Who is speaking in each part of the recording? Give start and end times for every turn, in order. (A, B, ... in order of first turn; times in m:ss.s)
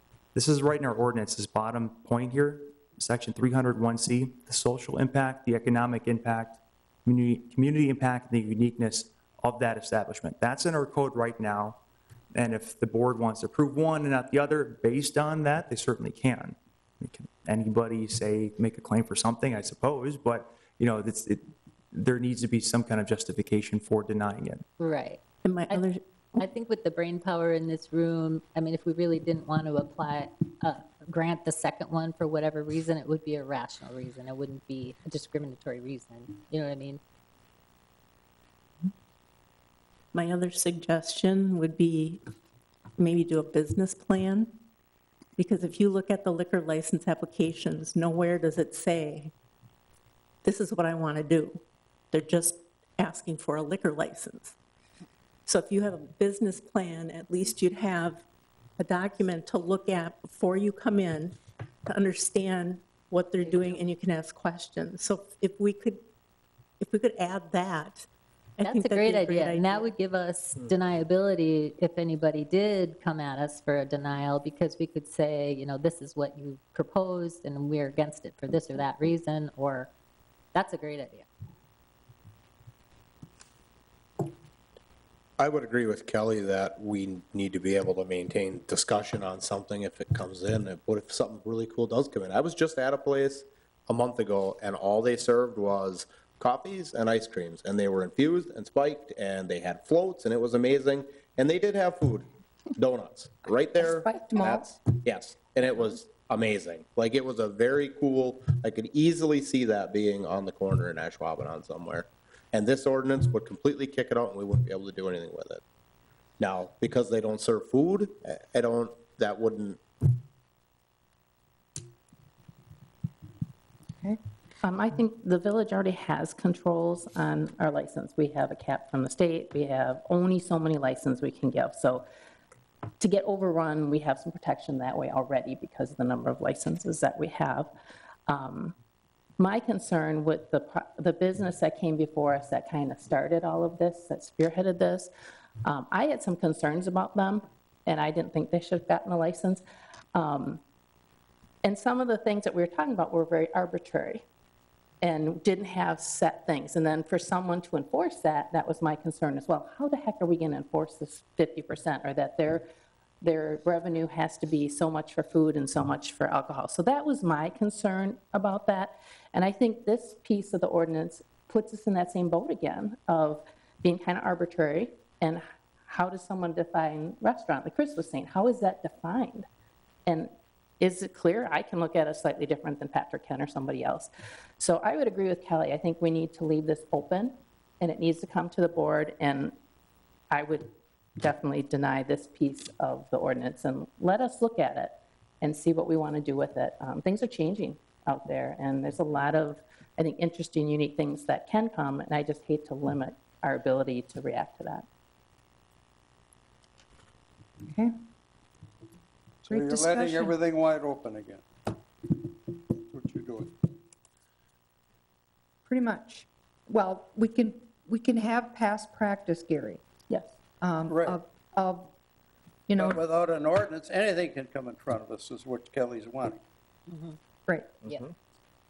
0:00.3-0:11.8 A
0:12.3-0:24.6 A
0:24.8-0:25.8 B
0:25.4-0:26.4 C
0:26.4-0:37.0 B
0:40.1-0:42.2 C
0:43.0-0:44.6 C
0:45.4-0:49.3 C
0:50.4-0:54.6 C
0:55.4-0:58.2 C
0:58.8-1:06.0 C
1:06.8-1:08.1 C
1:08.6-1:09.9 C
1:08.6-1:19.9 B
1:20.5-1:21.3 B
1:25.4-1:55.6 D
1:43.8-1:44.7 E
1:56.4-2:00.1 D
2:04.6-2:12.0 F
2:13.0-2:17.7 F
2:18.3-2:18.7 F
2:19.4-2:25.1 F
2:25.6-2:30.6 F
2:31.6-2:34.2 F
2:35.0-2:42.7 F
2:43.2-2:59.5 F
3:00.0-3:09.5 F
3:10.3-3:24.9 F
3:27.6-3:27.9 E
3:29.4-3:31.5 G
3:29.5-3:30.3 E
3:32.9-3:33.5 G
3:35.6-3:39.8 E
3:40.6-3:41.9 E
3:40.9-3:41.2 G
3:42.7-3:43.0 E
3:42.8-3:46.4 G
3:47.5-3:47.8 E